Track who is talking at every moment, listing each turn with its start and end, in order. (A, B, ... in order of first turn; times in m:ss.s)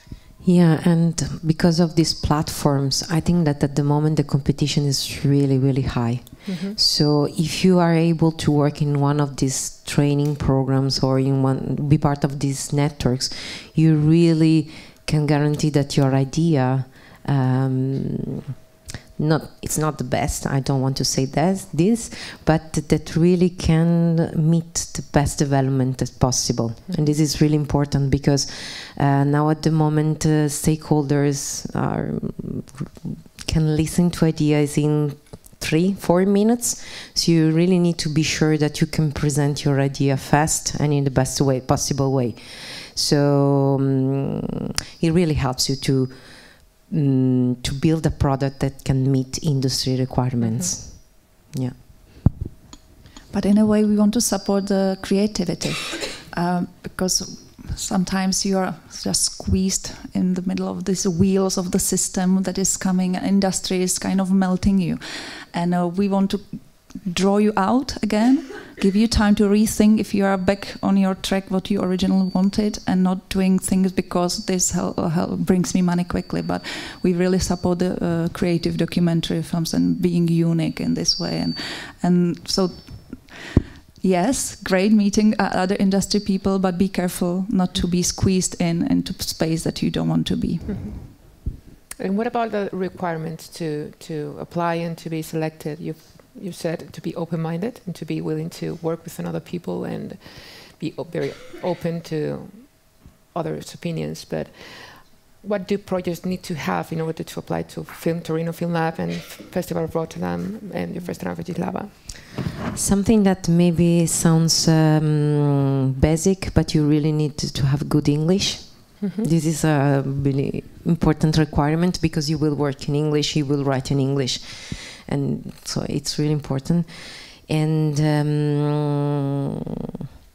0:00.4-0:18.4 A
0:06.5-0:06.8 B
0:19.2-0:51.8 A
0:50.4-0:50.7 B
0:53.3-1:31.1 C
1:32.0-1:51.9 B
1:52.7-2:09.1 A